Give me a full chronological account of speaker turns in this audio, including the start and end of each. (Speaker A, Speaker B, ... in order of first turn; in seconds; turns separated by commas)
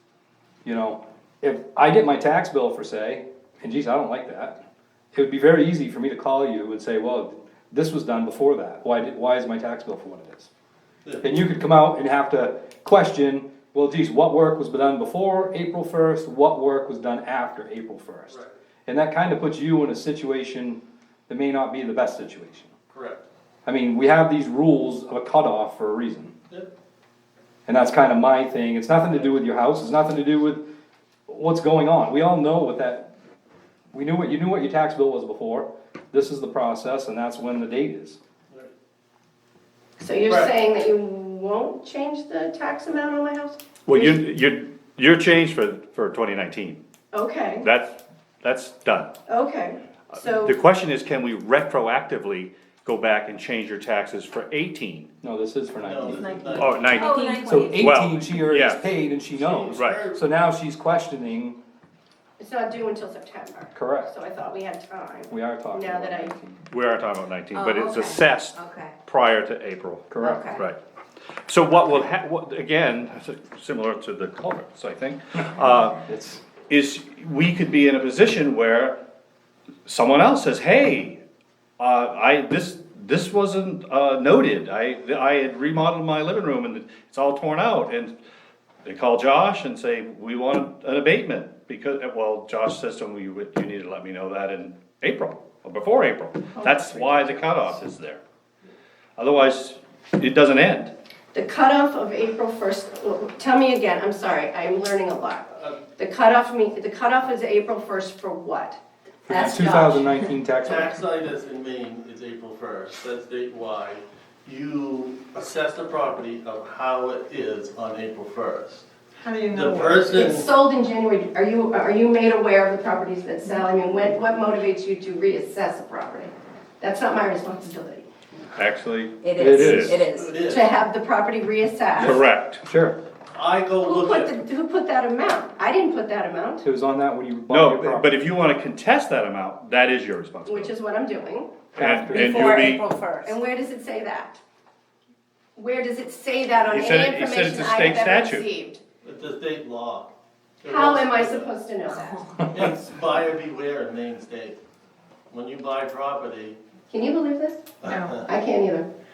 Speaker A: 0.6-4.6, Speaker A: 5.1-10.5, Speaker A: 11.2-22.7, Speaker B: 18.3-18.6, Speaker B: 22.9-23.2, Speaker A: 23.7-26.3, Speaker A: 27.7-30.6, Speaker A: 31.3-33.1, Speaker A: 33.9-38.2, Speaker C: 40.0-44.2, Speaker B: 40.3-40.5, Speaker D: 43.9-46.8, Speaker C: 47.1-47.7, Speaker D: 47.6-49.1, Speaker C: 49.3-50.6, Speaker D: 50.1-55.1, Speaker A: 55.2-56.7, Speaker B: 55.8-57.1, Speaker E: 56.0-57.5, Speaker D: 56.6-57.2, Speaker F: 56.9-58.0, Speaker A: 57.4-61.6, Speaker D: 57.7-58.9, Speaker B: 59.4-60.2, Speaker C: 62.4-66.3, Speaker A: 63.8-64.1, Speaker A: 65.3-66.7, Speaker D: 66.7-70.8, Speaker F: 67.5-69.0, Speaker A: 70.1-70.6, Speaker F: 70.2-70.6, Speaker D: 71.5-76.0, Speaker A: 76.0-76.4, Speaker D: 76.7-79.0, Speaker D: 79.9-81.2, Speaker D: 81.8-88.2, Speaker D: 88.8-98.2, Speaker C: 96.6-97.4, Speaker D: 99.2-100.9, Speaker C: 101.3-110.2, Speaker B: 105.5-105.8, Speaker A: 109.3-111.0, Speaker B: 110.6-118.9, Speaker E: 119.2-120.1, Speaker B: 119.5-120.5, Speaker C: 120.1-128.1, Speaker D: 128.6-130.1, Speaker F: 129.2-130.5, Speaker A: 129.4-130.0, Speaker B: 130.1-130.8, Speaker C: 130.5-132.2, Speaker A: 132.0-133.0, Speaker D: 132.0-132.6, Speaker B: 133.3-134.3, Speaker C: 133.8-136.7, Speaker A: 136.6-138.1, Speaker D: 137.5-140.7, Speaker C: 140.5-141.6, Speaker A: 141.8-142.7, Speaker D: 141.8-142.9, Speaker F: 142.1-143.4, Speaker C: 143.2-144.4, Speaker C: 145.6-148.8, Speaker D: 146.7-148.5, Speaker B: 149.0-150.1, Speaker B: 150.6-151.5, Speaker C: 150.7-152.5, Speaker B: 152.5-154.6, Speaker B: 155.3-156.6, Speaker C: 156.9-158.9, Speaker B: 157.8-158.2, Speaker E: 157.8-158.2